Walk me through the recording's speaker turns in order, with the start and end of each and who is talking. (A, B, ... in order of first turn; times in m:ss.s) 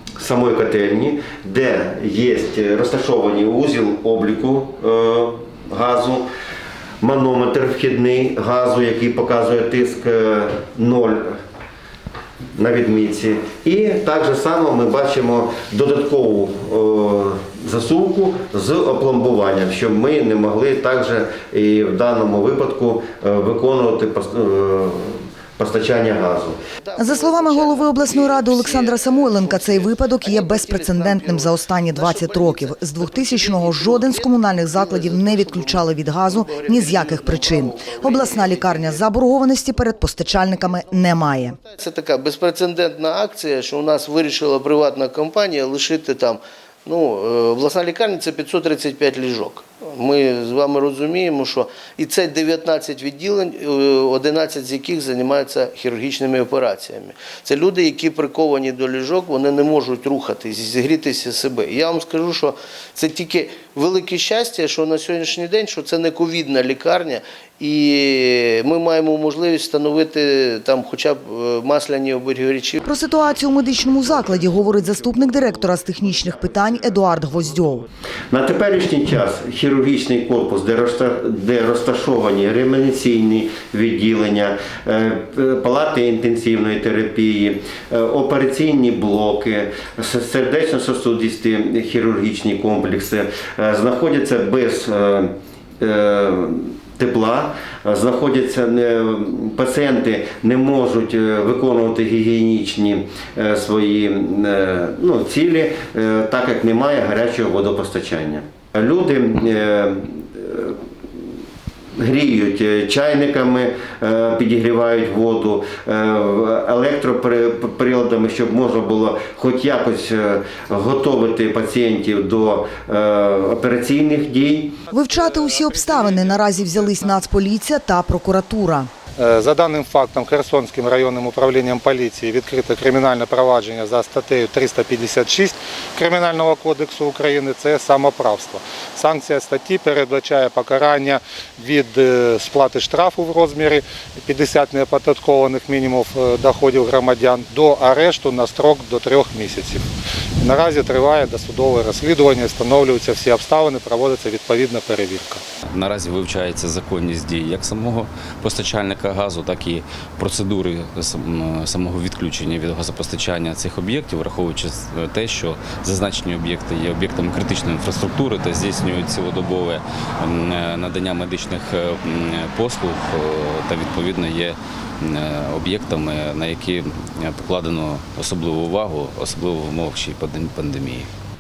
0:00.2-0:06.3 A
0:07.0-0:11.4 A
0:12.6-0:26.6 A
0:26.8-0:39.1 B
0:27.0-0:41.6 C
0:39.7-1:12.8 B
1:12.8-1:17.9 C
1:13.8-1:17.7 A
1:18.3-1:50.8 A
1:52.0-2:04.8 A
2:04.9-2:08.9 C
2:05.1-2:07.2 D
2:09.2-2:29.8 D
2:30.4-2:35.4 D
2:35.7-3:01.1 E